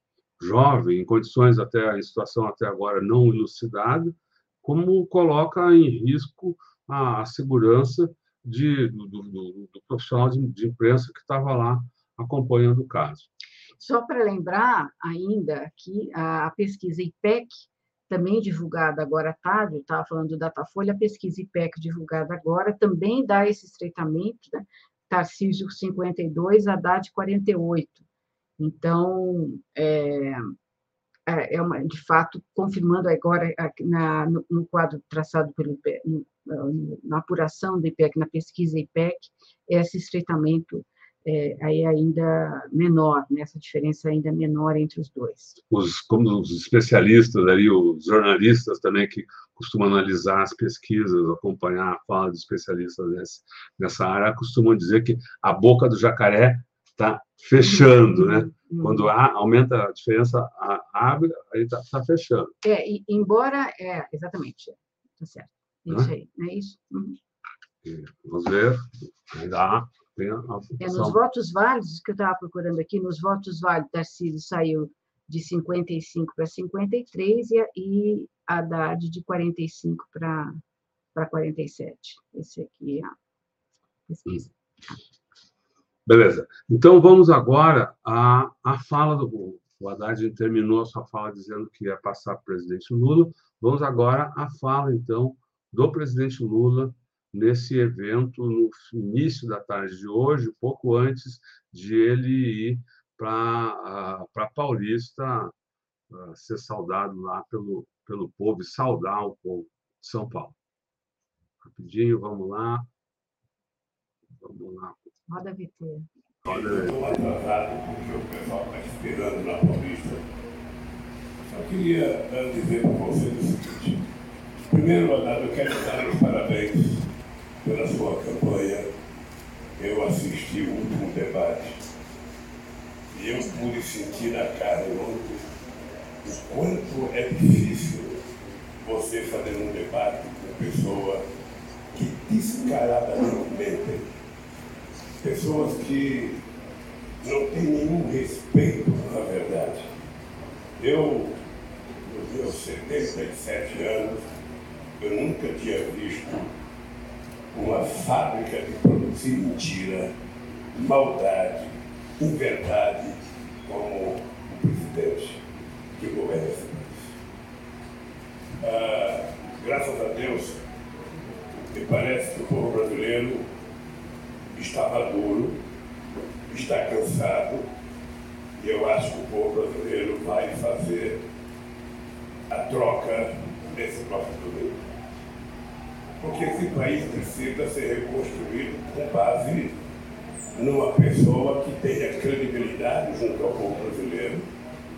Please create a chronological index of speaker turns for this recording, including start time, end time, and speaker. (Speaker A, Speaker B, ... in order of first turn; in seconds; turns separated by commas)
Speaker A: 0.4-13.3, Speaker B: 13.8-28.0, Speaker B: 28.6-30.5, Speaker B: 31.3-45.6, Speaker A: 45.7-62.5, Speaker B: 57.6-59.1, Speaker B: 62.6-67.2, Speaker A: 67.8-71.2, Speaker B: 70.8-80.5, Speaker B: 81.1-83.1, Speaker B: 84.1-84.5, Speaker A: 86.0-105.5, Speaker A: 106.1-110.5, Speaker A: 111.6-112.9, Speaker A: 114.4-115.0, Speaker B: 115.3-116.1, Speaker A: 116.4-117.2, Speaker C: 116.5-120.2, Speaker C: 121.5-124.0, Speaker C: 124.7-127.0, Speaker C: 127.6-128.8, Speaker C: 129.8-131.8, Speaker C: 133.1-135.4, Speaker C: 136.2-138.2, Speaker C: 138.8-141.2, Speaker C: 141.9-144.0, Speaker C: 145.2-146.4, Speaker C: 147.2-149.9, Speaker C: 150.8-151.4, Speaker C: 152.1-154.2, Speaker C: 155.0-156.5, Speaker C: 157.5-160.1, Speaker C: 160.8-165.4, Speaker C: 166.0-167.1, Speaker C: 168.6-170.6, Speaker C: 171.7-173.4, Speaker C: 174.5-175.6, Speaker C: 176.5-177.6, Speaker C: 178.6-181.2, Speaker C: 182.5-184.8, Speaker C: 186.2-189.7, Speaker C: 190.5-194.4